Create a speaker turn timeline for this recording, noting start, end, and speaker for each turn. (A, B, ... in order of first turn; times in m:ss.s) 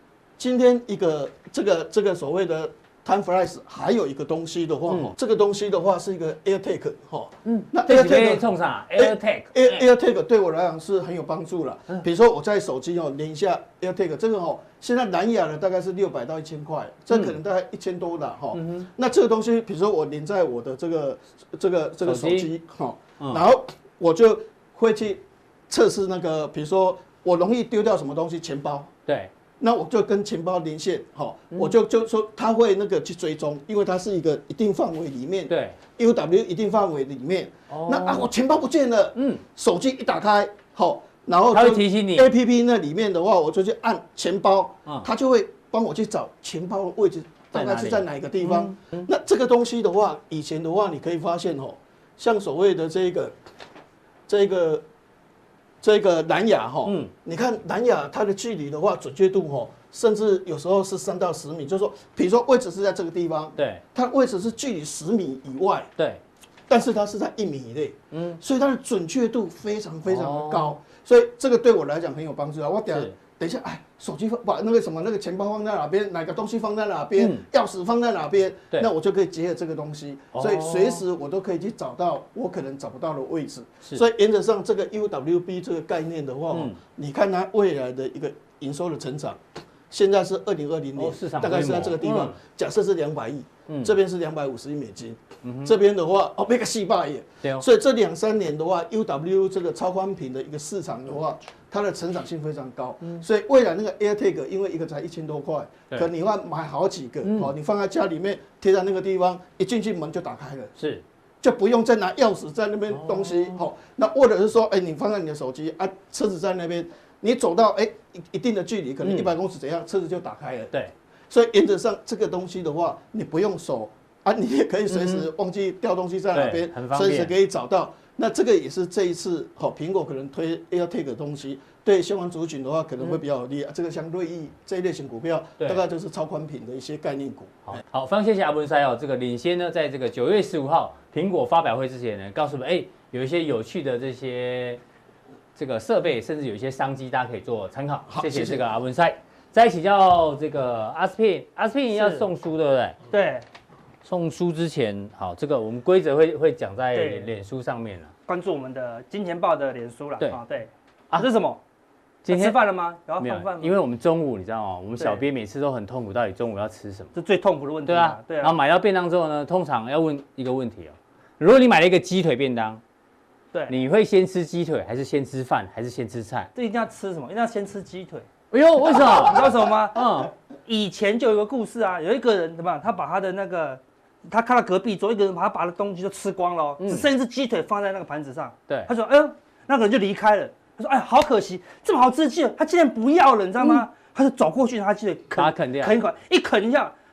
0:00.4-0:28.9 A
0:04.9-0:05.1 B
0:07.4-0:09.8 B
0:18.5-0:18.9 B
0:22.0-0:22.5 B
0:29.6-0:53.4 A
0:35.5-0:35.8 B
0:37.7-0:38.3 B
0:39.2-0:39.4 B
0:41.5-0:42.3 B
0:47.5-0:49.1 B
0:54.3-0:54.8 A
0:55.8-1:05.9 A
0:56.8-0:57.1 B
1:03.6-1:03.8 B
1:06.7-1:50.7 A
1:08.1-1:08.4 B
1:10.1-1:10.7 B
1:17.2-1:17.4 B
1:20.3-1:21.0 B
1:26.5-1:26.8 B
1:31.0-1:32.4 B
1:33.7-1:33.9 B
1:35.4-1:35.7 B
1:47.2-1:47.5 B
1:50.8-1:51.0 B
1:51.4-2:00.7 A
1:52.9-1:53.6 B
1:59.0-1:59.3 B
2:01.3-2:17.8 A
2:04.9-2:05.3 B
2:06.3-2:07.3 B
2:17.7-2:24.8 B
2:25.6-2:33.0 B
2:28.1-2:28.7 A
2:31.9-2:32.2 C
2:33.1-2:33.4 C
2:34.0-2:38.1 B
2:36.9-2:37.3 C
2:38.3-2:41.6 C
2:42.2-2:42.6 B
2:42.3-2:43.8 C
2:43.2-2:47.1 B
2:47.1-2:48.5 C
2:47.9-2:52.8 B
2:53.7-2:56.5 B
2:56.6-2:58.3 C
2:58.5-3:00.3 B
2:58.9-3:16.9 C
3:06.8-3:07.1 B
3:15.4-3:16.0 B